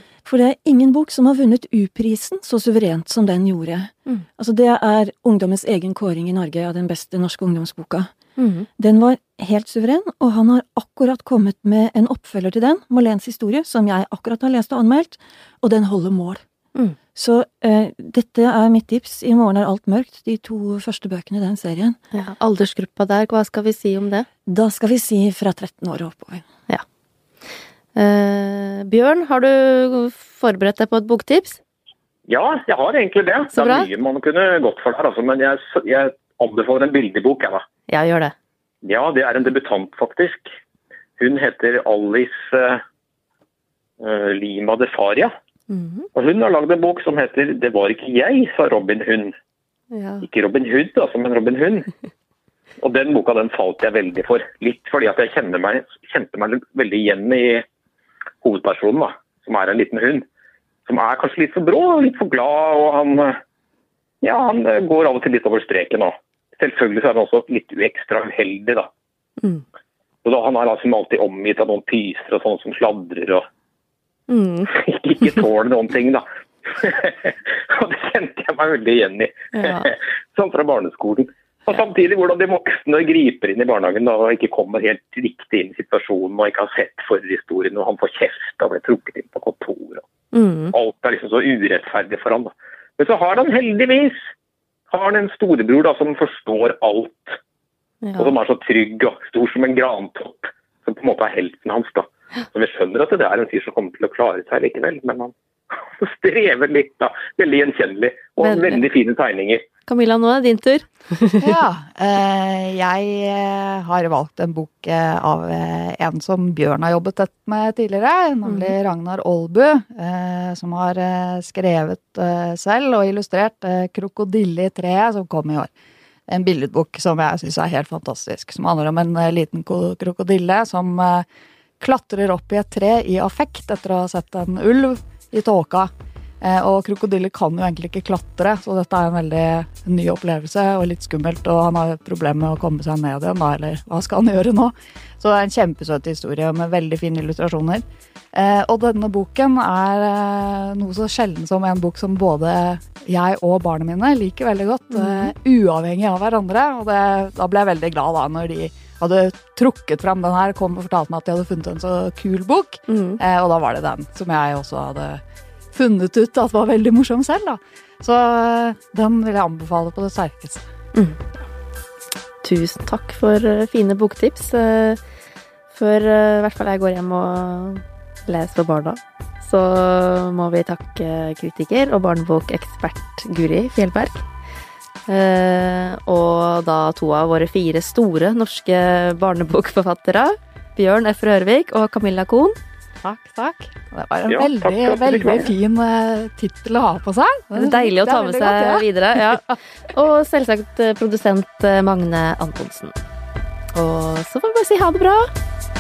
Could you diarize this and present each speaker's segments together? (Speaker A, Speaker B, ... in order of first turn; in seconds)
Speaker A: 0.2-8.1, 8.8-16.4, 17.1-22.0, 24.5-26.4
Speaker B: 8.4-8.7, 22.1-24.3, 28.0-31.6, 33.5-33.9, 37.9-38.3, 45.7-46.1, 49.9-50.2, 74.3-74.7, 79.5-79.9, 90.3-90.7, 98.0-98.3, 108.4-108.8, 109.9-111.5, 118.5-118.7, 154.9-155.3, 162.9-163.2, 170.9-171.2, 172.4-175.0, 175.7-184.2, 185.1-192.6, 197.6-202.9, 203.7-205.3
Speaker C: 32.3-37.6, 38.8-40.5, 41.2-42.8, 44.0-45.3, 46.1-49.3, 50.2-51.9, 52.8-57.6, 58.4-60.2, 60.9-63.4, 64.2-68.9, 70.2-73.4, 74.7-90.0, 90.7-94.3, 94.9-97.4, 98.2-109.6, 194.3-195.5
Speaker D: 111.4-125.7, 126.3-131.3, 131.8-135.9, 136.4-170.7, 193.0-198.9